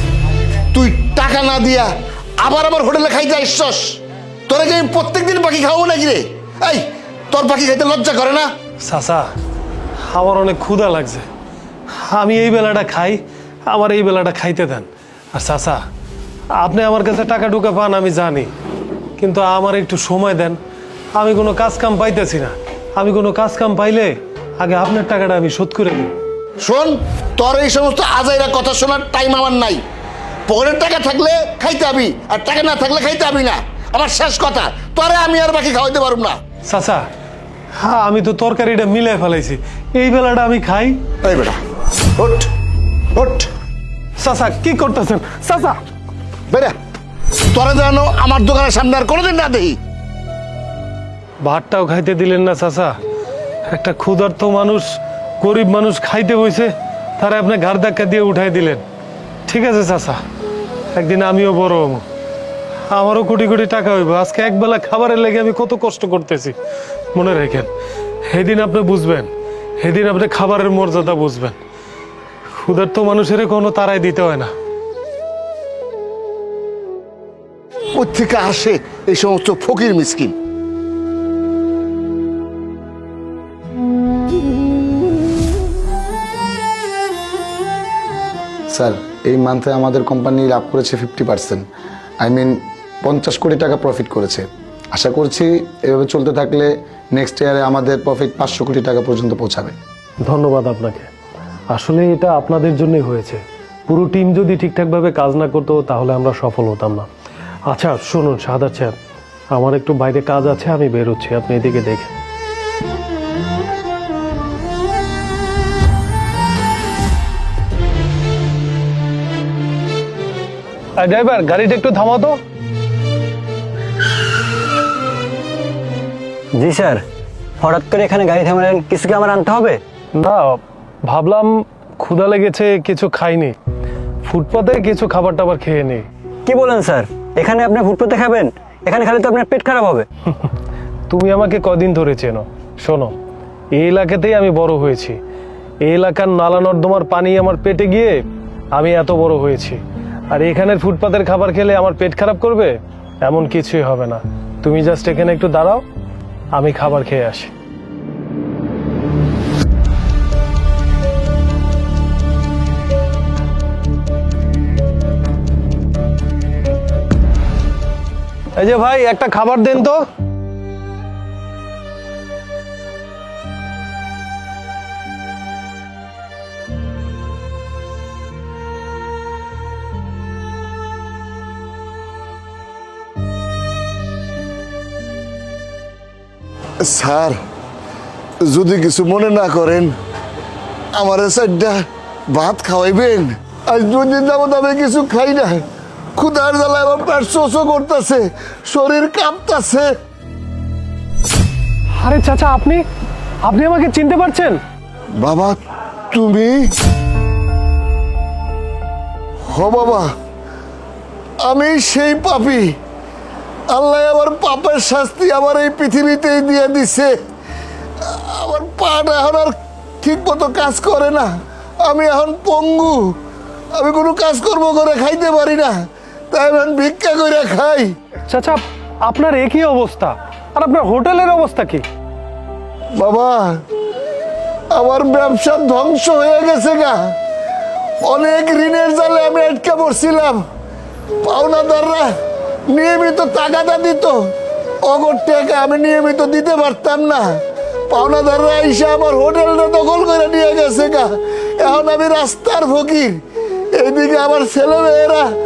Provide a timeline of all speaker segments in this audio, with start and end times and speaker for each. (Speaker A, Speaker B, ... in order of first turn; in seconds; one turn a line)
Speaker A: 0.7-8.5
Speaker B: 8.8-9.3
Speaker B: 10.0-11.2
Speaker B: 11.9-15.8
Speaker B: 16.5-18.5
Speaker B: 19.2-20.6
Speaker B: 21.1-26.1
Speaker A: 26.6-29.8
Speaker A: 30.5-36.4
Speaker B: 36.6-37.0
Speaker B: 37.8-41.0
Speaker A: 41.2-41.6
Speaker A: 42.1-42.5
Speaker A: 43.1-43.5
Speaker B: 44.2-45.8
Speaker A: 46.5-46.8
Speaker A: 47.5-49.8
Speaker B: 51.4-53.0
Speaker B: 53.7-58.8
Speaker B: 59.5-60.2
Speaker B: 60.9-62.0
Speaker B: 62.9-66.5
Speaker B: 67.1-67.7
Speaker B: 68.2-69.3
Speaker B: 69.8-71.6
Speaker B: 72.5-74.5
Speaker A: 77.9-80.3
Speaker C: 88.7-91.7
Speaker C: 92.2-99.7
Speaker B: 100.2-101.1
Speaker B: 101.7-107.1
Speaker B: 107.7-109.0
Speaker B: 109.5-112.1
Speaker B: 121.0-122.4
Speaker D: 126.5-127.0
Speaker D: 127.6-129.8
Speaker B: 130.1-133.6
Speaker B: 134.2-136.0
Speaker D: 136.4-140.1
Speaker B: 141.1-143.1
Speaker B: 143.7-145.2
Speaker B: 145.8-148.2
Speaker B: 148.7-155.8
Speaker B: 156.5-157.5
Speaker B: 168.5-170.0
Speaker A: 186.8-187.4
Speaker A: 188.4-189.9
Speaker A: 190.9-199.9
Speaker B: 201.9-202.8
Speaker B: 203.4-204.6
Speaker A: 205.2-205.6
Speaker A: 206.1-206.7
Speaker A: 209.5-210.1
Speaker A: 211.4-212.7
Speaker A: 213.7-217.2
Speaker A: 218.0-221.3
Speaker A: 221.8-223.2
Speaker A: 223.7-225.8
Speaker A: 226.3-227.9
Speaker B: 228.3-231.8
Speaker A: 232.9-233.6
Speaker A: 234.7-237.1
Speaker A: 238.0-240.4
Speaker A: 241.2-242.1
Speaker A: 242.7-244.3
Speaker A: 244.8-253.2
Speaker A: 253.7-255.3